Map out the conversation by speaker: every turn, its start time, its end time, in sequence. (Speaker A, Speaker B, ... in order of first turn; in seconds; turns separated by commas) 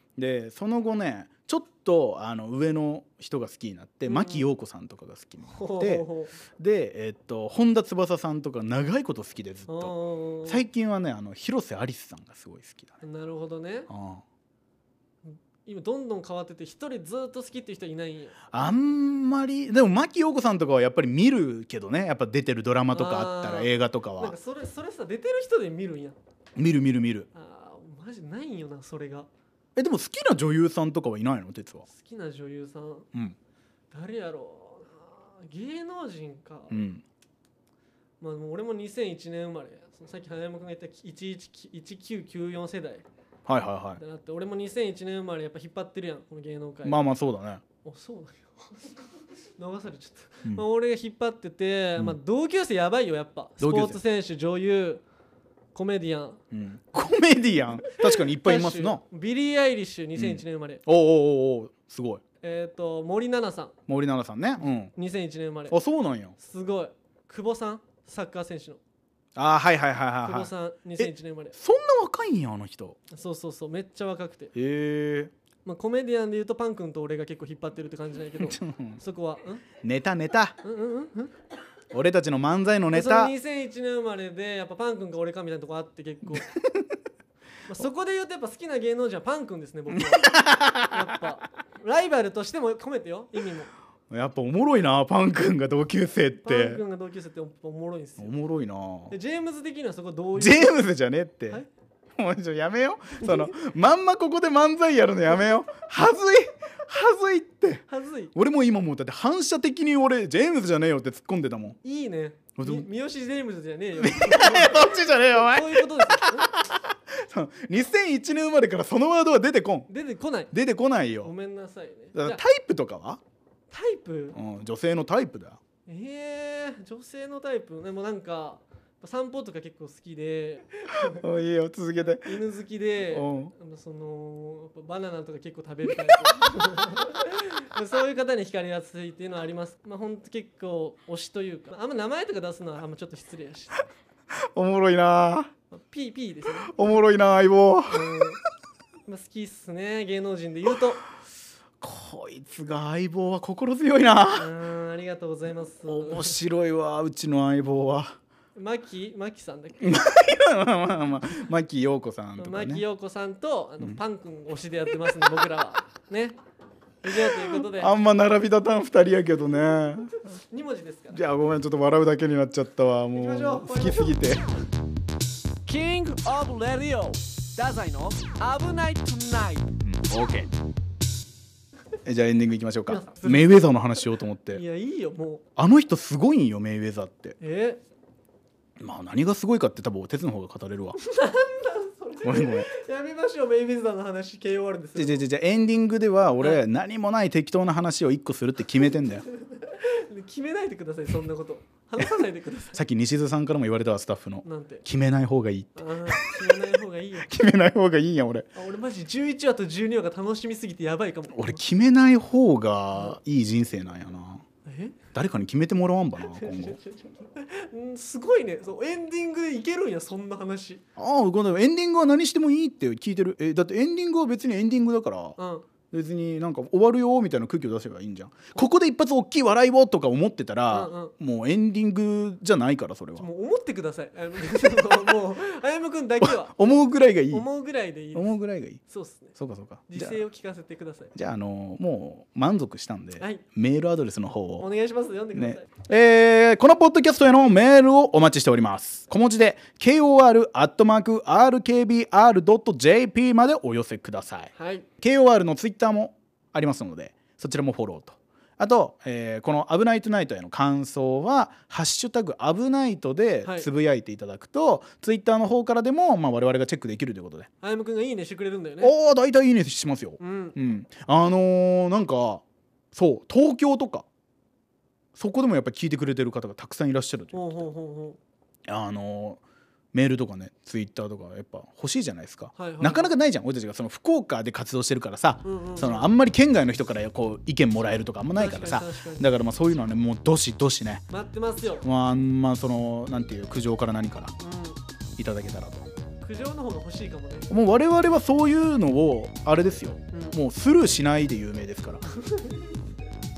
Speaker A: 0.2-6.1, Speaker B: 4.1-4.5, Speaker B: 5.5-6.3, Speaker A: 6.6-9.9, Speaker B: 9.7-10.6, Speaker A: 10.5-13.0, Speaker B: 13.0-13.9, Speaker A: 13.9-14.2, Speaker B: 15.3-18.4, Speaker A: 18.5-24.4, Speaker B: 22.9-26.2, Speaker A: 26.6-27.3, Speaker B: 27.3-29.3, Speaker A: 29.8-31.9, Speaker B: 31.9-33.1, Speaker B: 33.9-36.8, Speaker A: 36.7-37.0, Speaker B: 38.2-43.0, Speaker A: 43.5-44.0, Speaker B: 44.0-47.0, Speaker A: 46.8-47.6, Speaker B: 47.8-49.0, Speaker B: 49.6-55.0, Speaker A: 53.6-54.0, Speaker B: 55.7-56.4, Speaker A: 56.5-59.0, Speaker B: 57.9-60.8, Speaker A: 60.2-62.2, Speaker B: 62.4-63.7, Speaker A: 63.9-64.9, Speaker B: 65.0-65.8, Speaker A: 65.7-66.3, Speaker B: 66.4-68.8, Speaker A: 69.4-73.0, Speaker B: 70.2-71.6, Speaker B: 73.1-74.5, Speaker A: 74.5-75.3, Speaker B: 75.7-79.7, Speaker A: 78.4-79.0, Speaker A: 79.8-80.6, Speaker B: 80.6-81.3, Speaker A: 81.9-83.3, Speaker B: 82.9-86.5, Speaker A: 86.3-86.9, Speaker B: 87.7-93.7, Speaker A: 89.9-91.1, Speaker A: 94.1-96.8, Speaker B: 96.4-98.3, Speaker A: 98.2-99.2, Speaker B: 99.1-100.8, Speaker A: 100.4-101.6, Speaker A: 102.2-111.8, Speaker B: 103.2-103.5, Speaker B: 107.9-108.3, Speaker B: 111.8-116.5, Speaker A: 112.6-112.9, Speaker A: 114.0-119.9, Speaker B: 119.9-120.5, Speaker A: 120.5-121.3, Speaker B: 121.2-122.4, Speaker A: 122.2-123.2, Speaker B: 123.7-124.4, Speaker A: 124.3-125.6, Speaker B: 125.9-131.2, Speaker A: 131.0-132.4, Speaker B: 132.2-143.9, Speaker A: 133.1-133.5, Speaker A: 144.4-145.5, Speaker B: 145.7-146.7, Speaker A: 146.7-148.2, Speaker B: 147.9-148.4, Speaker B: 149.1-151.0, Speaker A: 151.8-154.5, Speaker B: 154.3-156.4, Speaker A: 155.9-158.2, Speaker B: 158.6-160.0, Speaker A: 159.8-162.8, Speaker B: 162.4-166.4, Speaker A: 165.2-165.5, Speaker B: 167.0-167.9, Speaker A: 167.1-170.2, Speaker B: 170.3-171.2, Speaker A: 171.1-174.4, Speaker B: 173.1-174.2, Speaker B: 175.7-179.7, Speaker A: 179.8-180.5, Speaker A: 182.1-184.6, Speaker B: 182.9-183.7, Speaker B: 184.5-185.4, Speaker A: 185.6-187.4, Speaker B: 187.4-187.8, Speaker A: 188.8-191.0, Speaker B: 191.0-195.2, Speaker A: 192.2-192.7, Speaker A: 195.0-199.3, Speaker B: 199.4-202.8, Speaker A: 202.7-206.3, Speaker B: 204.4-204.8, Speaker B: 205.8-207.3, Speaker A: 207.2-208.5, Speaker B: 208.6-211.6, Speaker A: 211.3-214.4, Speaker B: 214.7-215.0, Speaker A: 215.1-216.8, Speaker B: 216.3-220.8, Speaker A: 221.0-225.4, Speaker B: 225.4-225.7, Speaker A: 225.9-233.3, Speaker B: 230.7-231.1, Speaker B: 233.2-236.5, Speaker A: 236.2-237.5, Speaker B: 237.3-239.3, Speaker A: 238.1-238.8, Speaker A: 239.4-240.2, Speaker B: 239.9-241.1, Speaker A: 241.2-244.7, Speaker B: 243.2-243.4, Speaker B: 244.6-245.7, Speaker A: 245.3-267.5, Speaker B: 254.6-254.9, Speaker B: 263.4-263.7, Speaker B: 267.6-268.9, Speaker A: 268.8-272.4, Speaker B: 270.2-270.6, Speaker A: 272.9-274.1, Speaker A: 275.2-277.6, Speaker B: 277.3-278.2, Speaker A: 278.7-279.4, Speaker A: 279.9-291.0, Speaker B: 282.6-283.1, Speaker B: 285.4-286.1, Speaker B: 288.4-289.3, Speaker B: 291.1-291.9, Speaker A: 291.8-294.4, Speaker B: 294.4-294.8, Speaker A: 295.2-295.9, Speaker B: 296.2-297.5, Speaker A: 297.5-302.1, Speaker B: 300.1-300.4, Speaker B: 302.1-302.8